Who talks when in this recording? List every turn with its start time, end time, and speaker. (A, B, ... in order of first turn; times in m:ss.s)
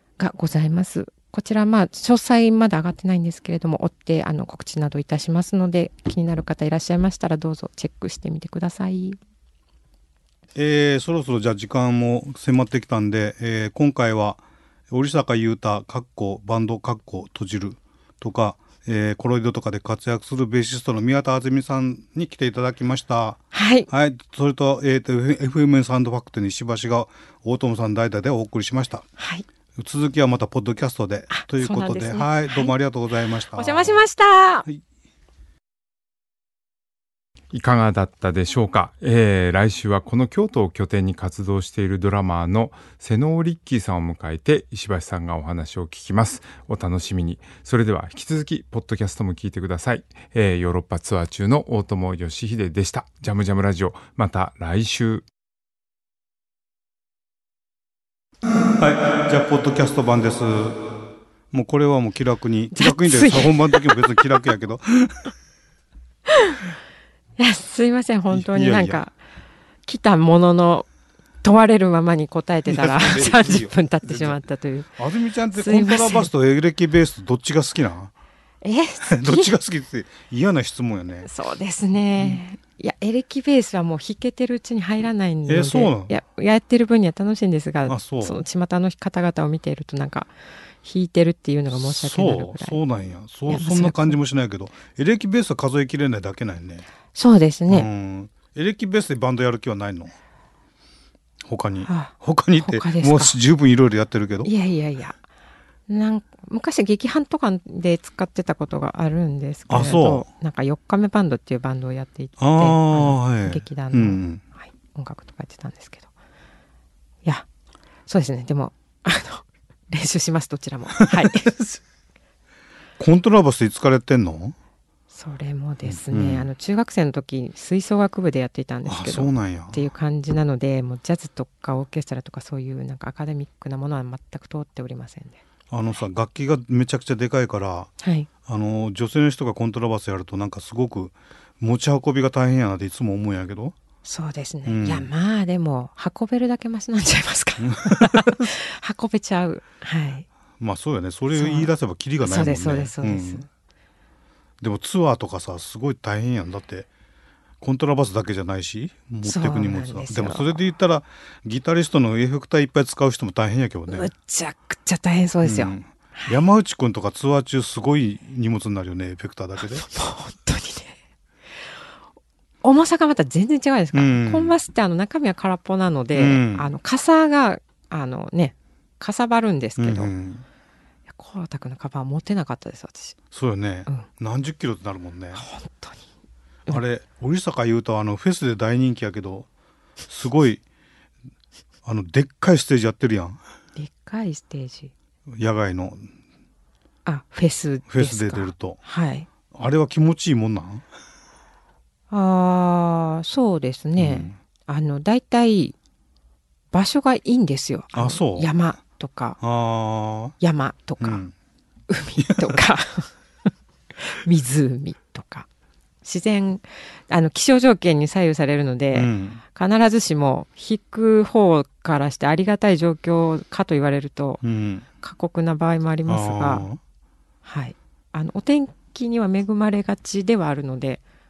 0:00.2-0:09.2 A
0:10.6-0:29.0 B
0:23.5-0:23.9 A
0:29.2-0:29.5 A
0:29.8-0:34.0 B
0:31.3-0:32.7 A
0:33.5-0:34.7 A
0:37.5-0:55.2 C
0:58.8-1:00.8 B
1:01.5-1:05.2 B
1:02.7-1:04.2 A
1:06.3-1:06.6 A
1:07.4-1:09.1 A
1:08.3-1:09.0 B
1:09.9-1:10.9 A
1:11.4-1:14.9 A
1:12.7-1:14.4 B
1:15.0-1:18.1 B
1:15.5-1:16.3 A
1:18.6-1:19.5 A
1:19.0-1:21.3 B
1:21.2-1:30.3 A
1:25.5-1:26.1 B
1:27.9-1:28.4 B
1:30.8-1:32.8 A
1:31.7-1:36.9 B
1:33.5-1:34.2 A
1:37.1-1:37.9 A
1:37.7-1:40.2 B
1:41.4-1:44.5 B
1:41.8-1:43.4 A
1:44.4-1:45.2 A
1:45.9-1:56.1 A
1:49.7-1:50.3 B
1:52.4-1:54.4 B
1:58.1-2:01.5 A
2:01.0-2:01.8 B
2:03.0-2:04.6 B
2:05.1-2:15.4 A
2:05.9-2:06.5 B
2:08.9-2:09.8 B
2:15.7-2:17.9 B
2:18.0-2:18.3 A
2:18.4-2:23.8 B
2:24.0-2:30.3 A
2:24.7-2:25.1 B
2:27.6-2:28.5 B
2:30.6-2:33.4 B
2:31.3-2:33.5 A
2:34.6-2:36.9 B
2:37.6-2:44.1 B
2:39.2-2:40.6 A
2:43.9-2:46.4 A
2:45.4-2:49.9 B
2:49.7-2:51.0 A
2:52.6-3:00.1 A
2:53.9-2:54.6 B
2:56.1-2:56.7 B
2:59.8-3:00.4 B
3:01.1-3:03.2 A
3:03.3-3:05.4 B
3:05.3-3:06.1 A
3:06.7-3:09.5 B
3:10.1-3:10.6 B
3:11.8-3:13.4 B
3:13.8-3:14.9 A
3:15.4-3:16.1 B
3:17.0-3:19.3 A
3:17.9-3:18.8 B
3:19.5-3:20.8 B
3:22.1-3:25.8 A
3:24.0-3:24.4 B
3:26.7-3:29.4 A
3:27.9-3:28.5 B
3:29.4-3:30.4 B
3:30.4-3:31.2 A
3:31.0-3:31.3 B
3:31.9-3:33.1 A
3:32.2-3:32.6 B
3:34.0-3:35.5 A
3:36.0-3:44.4 A
3:38.9-3:39.4 B
3:44.4-3:44.8 B
3:45.0-3:46.7 A
3:46.1-3:46.8 B
3:47.4-3:51.0 A